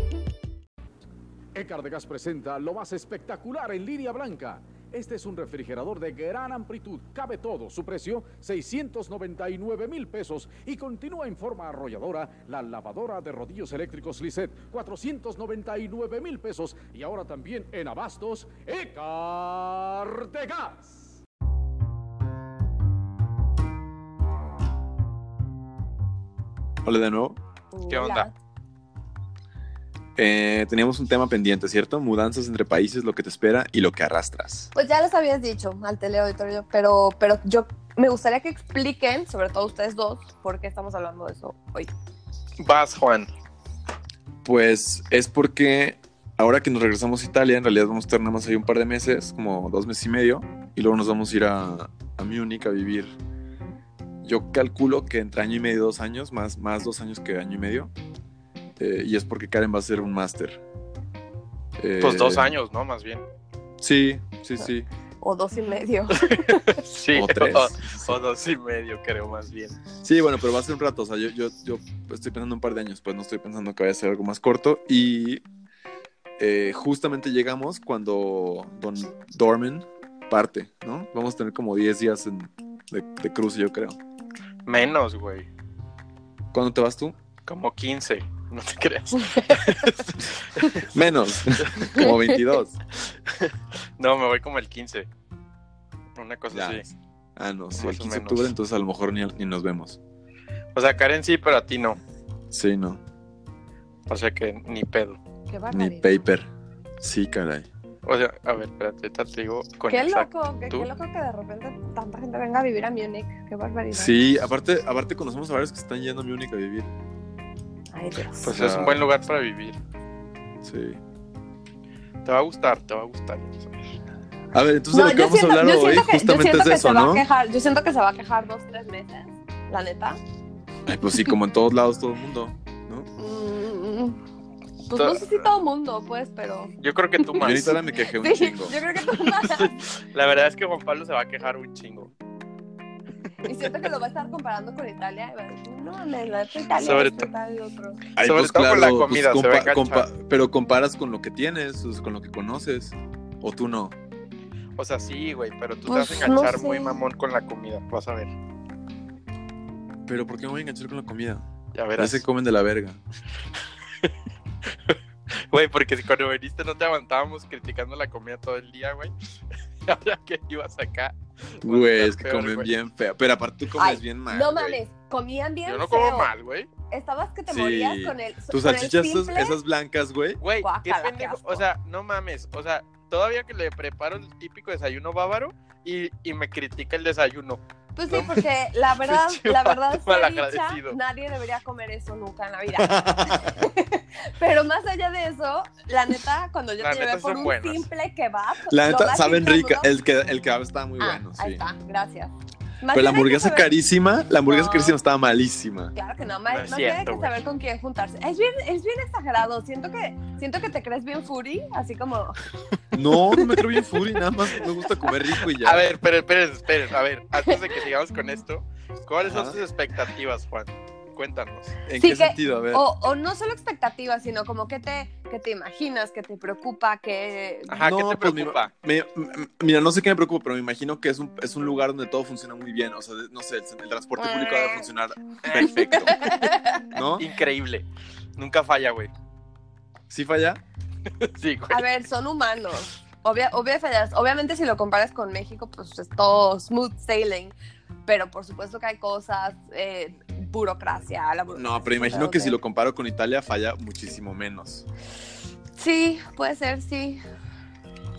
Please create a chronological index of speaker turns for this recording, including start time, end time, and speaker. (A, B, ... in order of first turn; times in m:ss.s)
0:01.5-0:21.2 A
0:26.8-0:27.4 B
0:27.7-0:28.3 C
0:27.9-0:28.3 D
0:30.2-0:34.7 B
0:34.8-0:41.9 C
0:42.6-0:43.3 D
0:44.4-0:53.1 B
0:54.2-0:57.9 B
0:58.8-1:00.6 B
1:01.8-1:02.6 B
1:02.0-1:03.2 D
1:03.8-1:04.9 B
1:05.2-1:06.6 C
1:06.2-1:09.8 D
1:07.1-1:08.2 B
1:10.0-1:15.4 B
1:16.4-1:24.0 B
1:24.7-1:25.5 D
1:26.5-1:27.2 B
1:27.5-1:30.9 D
1:30.9-1:32.8 B
1:33.3-1:35.1 D
1:36.2-1:36.9 D
1:36.5-1:40.0 B
1:37.8-1:38.5 D
1:40.8-1:42.0 D
1:42.5-1:43.0 B
1:44.1-1:45.2 D
1:45.5-1:46.2 C
1:45.7-1:46.5 B
1:47.0-1:47.7 B
1:48.0-1:50.9 D
1:49.9-1:54.1 C
1:53.9-1:56.9 B
1:57.9-1:58.5 C
1:58.4-1:59.8 D
1:58.5-1:59.0 B
2:00.6-2:01.0 B
2:02.2-2:03.9 D
2:04.5-2:07.2 B
2:04.9-2:10.2 C
2:10.9-2:13.1 B
2:13.2-2:14.2 C
2:14.9-2:19.8 C
2:15.0-2:15.3 D
2:16.8-2:17.7 D
2:17.4-2:18.8 B
2:19.3-2:22.1 D
2:23.4-2:28.0 C
2:26.8-2:27.3 D
2:28.2-2:34.0 B
2:28.2-2:30.1 D
2:34.8-2:38.3 D
2:35.9-2:37.0 C
2:40.1-2:41.4 B
2:41.8-2:42.2 D
2:42.0-2:43.0 B
2:45.5-2:49.1 D
2:49.8-2:52.7 D
2:51.6-2:54.8 B
2:53.8-2:56.3 C
2:55.7-2:56.7 D
2:56.9-2:59.6 C
2:57.5-3:00.4 B
3:00.4-3:08.5 D
3:00.6-3:01.7 C
3:08.0-3:19.9 C
3:09.0-3:11.0 D
3:12.8-3:13.6 B
3:16.8-3:17.9 D
3:18.7-3:21.6 B
3:21.0-3:23.7 C
3:22.9-3:26.0 B
3:24.5-3:25.0 C
3:26.0-3:32.4 C
3:26.5-3:27.4 D
3:32.9-3:35.9 B
3:35.6-3:41.8 D
3:39.2-3:39.6 B
3:41.9-3:42.8 B
3:42.0-3:47.8 C
3:47.7-3:48.7 D
3:47.8-3:56.2 B
3:54.2-3:54.8 C
3:55.4-3:56.2 D
3:56.0-3:56.8 C
3:56.9-3:57.3 B
3:57.2-3:57.8 D
3:58.4-3:59.1 D
4:00.1-4:00.6 B
4:01.2-4:01.9 D
4:01.7-4:07.6 C
4:08.1-4:12.6 C
4:11.5-4:14.8 B
4:15.8-4:17.2 C